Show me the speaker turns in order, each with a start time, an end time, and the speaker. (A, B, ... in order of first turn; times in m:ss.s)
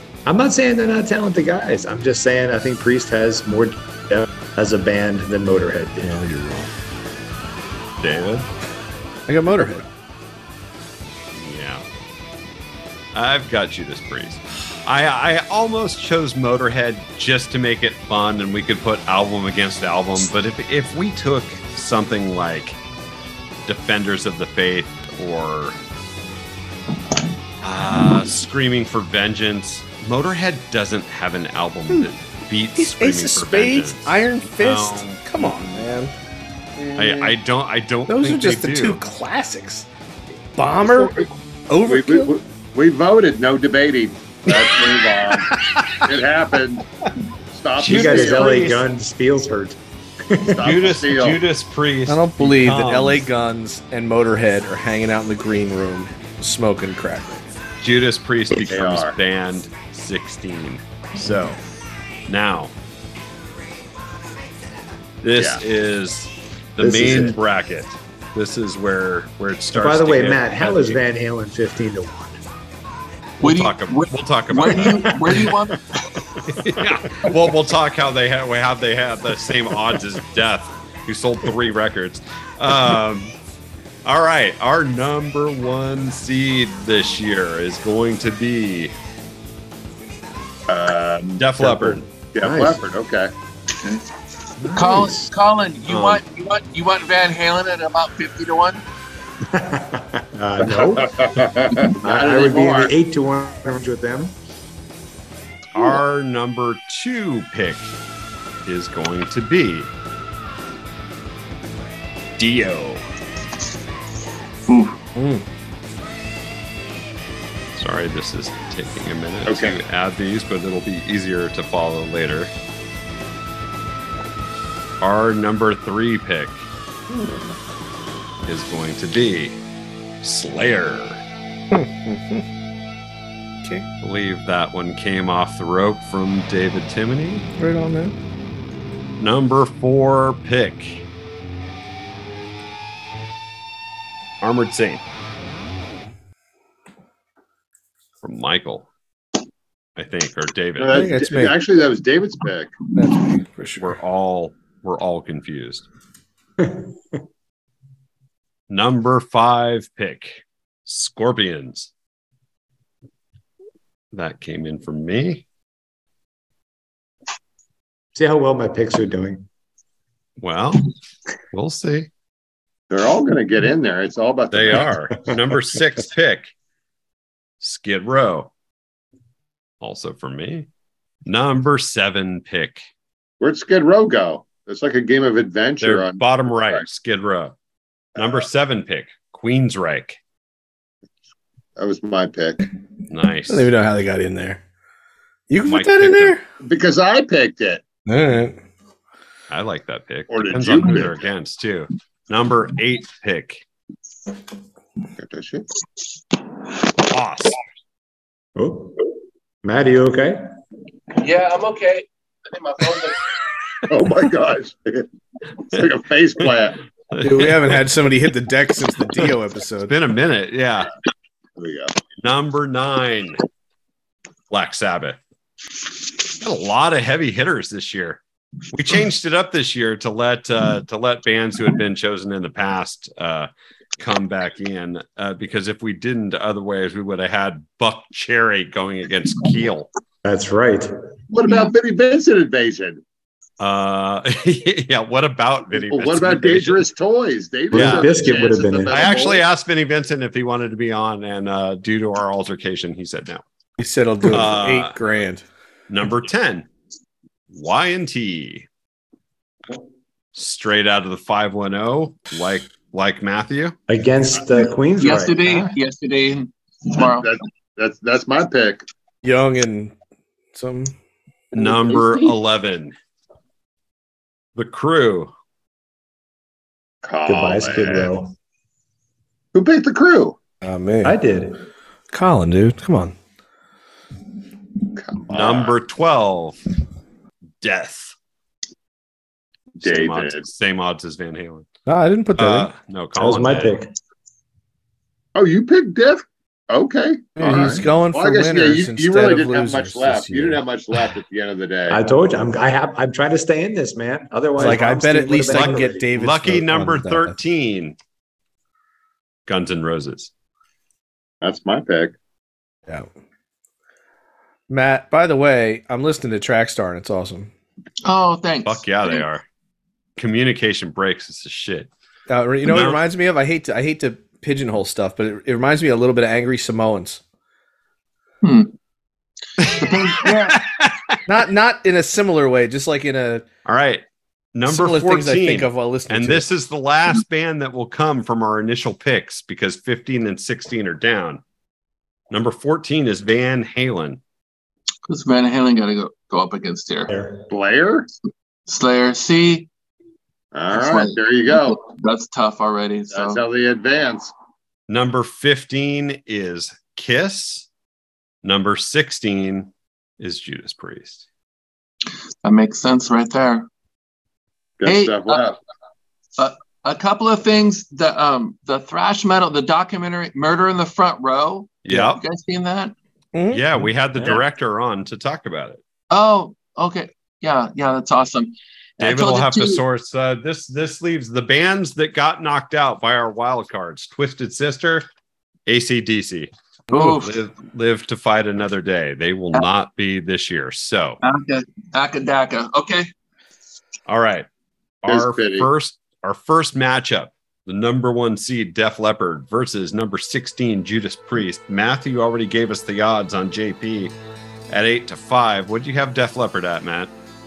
0:00.2-0:06.2 A
0:06.0-0:06.7 B
0:08.0-0:08.5 C
0:09.3-0:09.8 B
0:11.3-0:11.8 C
0:13.1-0:22.8 C
0:23.6-0:25.8 C
0:27.6-0:35.8 C
0:32.8-0:36.1 B
0:37.0-0:39.0 C
0:38.1-0:39.8 B
0:40.5-0:42.3 B
0:40.8-0:41.3 D
0:41.8-0:46.8 D
0:47.5-0:48.7 D
0:47.8-0:48.8 C
0:47.8-0:50.9 A
0:50.5-0:51.4 D
0:50.6-0:53.2 C
0:52.1-0:57.4 B
0:57.8-1:01.6 C
0:58.7-0:59.2 D
1:02.3-1:02.7 C
1:05.2-1:11.0 C
1:06.8-1:07.4 A
1:09.7-1:12.4 A
1:13.4-1:16.2 E
1:13.4-1:15.5 C
1:15.1-1:15.4 A
1:16.4-1:23.3 C
1:24.0-1:28.9 C
1:30.7-1:31.4 D
1:31.4-1:32.0 C
1:31.6-1:32.8 A
1:32.3-1:33.3 D
1:33.8-1:34.1 E
1:34.6-1:35.2 A
1:34.7-1:38.8 E
1:35.9-1:36.2 C
1:39.5-1:41.5 A
1:40.7-1:42.9 D
1:42.0-1:44.3 A
1:45.7-1:47.9 C
1:48.6-1:49.9 C
1:52.4-1:53.0 C
1:54.7-1:55.0 E
1:55.1-1:55.4 B
1:57.7-2:02.5 C
1:59.4-1:59.8 D
2:05.0-2:06.6 C
2:08.4-2:09.6 C
2:10.2-2:11.2 C
2:11.7-2:12.4 B
2:14.0-2:17.4 C
2:17.6-2:18.1 B
2:19.2-2:21.0 C
2:24.4-2:25.0 C
2:28.2-2:28.9 C
2:30.0-2:31.1 C
2:30.8-2:32.8 D
2:30.9-2:31.6 B
2:32.9-2:33.9 B
2:33.8-2:35.8 C
2:36.6-2:36.9 A
2:38.7-2:41.9 C
2:44.1-2:45.4 C
2:48.1-2:49.4 A
2:50.4-2:50.9 C
2:51.5-2:52.1 C
2:52.9-2:54.9 D
2:54.5-2:56.5 C
2:57.6-2:58.5 C
2:59.8-3:00.7 C
3:01.2-3:02.8 C
3:03.4-3:06.8 D
3:05.8-3:07.5 C
3:08.2-3:10.2 C
3:11.8-3:12.6 D
3:13.1-3:13.7 C
3:13.5-3:14.6 B
3:15.5-3:16.4 B
3:15.6-3:16.4 C
3:16.6-3:17.8 D
3:18.0-3:18.6 B
3:19.5-3:23.6 C
3:20.3-3:21.2 D
3:25.2-3:25.7 D
3:27.1-3:27.6 C
3:28.6-3:29.1 A
3:29.6-3:30.4 A
3:31.1-3:33.2 E
3:33.9-3:35.1 D
3:35.7-3:36.8 D
3:37.1-3:37.8 C
3:37.2-3:39.9 B
3:39.8-3:40.9 C
3:41.6-3:41.9 D
3:42.2-3:43.4 C
3:44.5-3:45.2 C
3:46.4-3:59.9 C
4:00.2-4:00.9 A
4:01.3-4:03.0 D
4:03.6-4:06.8 C
4:05.7-4:09.4 D
4:07.7-4:09.1 A
4:07.7-4:08.3 C
4:08.9-4:13.4 C
4:13.8-4:15.4 B
4:14.3-4:15.0 C
4:15.9-4:16.7 C
4:17.5-4:18.6 C
4:20.3-4:23.8 C
4:23.9-4:25.7 A
4:25.0-4:27.4 E
4:27.0-4:28.8 D
4:29.2-4:29.9 B
4:30.5-4:30.9 B
4:31.5-4:32.9 C
4:31.5-4:32.3 D
4:34.5-4:35.3 C
4:37.0-4:38.1 D
4:37.3-4:38.3 A
4:39.5-4:40.4 D
4:40.6-4:41.2 B
4:41.0-4:41.6 A
4:42.1-4:43.2 B
4:44.9-4:45.8 D
4:45.3-4:46.6 C
4:47.6-4:48.1 C
4:49.8-4:51.7 C
4:49.8-4:50.4 D
4:51.8-4:52.7 B
4:52.4-4:53.8 C
4:53.2-4:53.9 A
4:55.3-5:02.0 D
4:57.4-5:00.6 B
5:01.9-5:06.1 A
5:04.6-5:07.4 B
5:05.5-5:08.0 C
5:09.5-5:10.3 C
5:11.4-5:12.1 D
5:14.7-5:17.5 B
5:18.0-5:19.2 E
5:18.6-5:19.4 C
5:20.2-5:21.9 C
5:22.3-5:27.2 B
5:22.6-5:23.0 C
5:28.4-5:28.7 E
5:29.6-5:30.6 E
5:29.8-5:31.2 C
5:31.2-5:33.4 B
5:33.6-5:41.4 C
5:34.6-5:36.5 B
5:42.3-5:44.2 C
5:45.1-5:47.1 E
5:47.1-5:47.4 A
5:47.5-5:48.1 D
5:48.7-5:49.7 E
5:50.5-5:51.8 D
5:50.7-5:53.4 E
5:53.1-5:54.3 D
5:54.9-5:57.7 C
5:58.4-6:01.2 C
6:02.4-6:03.7 E
6:04.8-6:05.6 D
6:04.8-6:05.5 E
6:06.4-6:12.9 E
6:11.8-6:12.2 C
6:13.3-6:13.8 B
6:13.5-6:15.8 C
6:16.1-6:19.8 E
6:19.0-6:25.1 C
6:25.6-6:31.2 C
6:26.9-6:27.4 E
6:31.2-6:33.1 E
6:34.1-6:34.5 C
6:35.0-6:44.1 C
6:35.0-6:35.7 D
6:44.7-6:47.1 C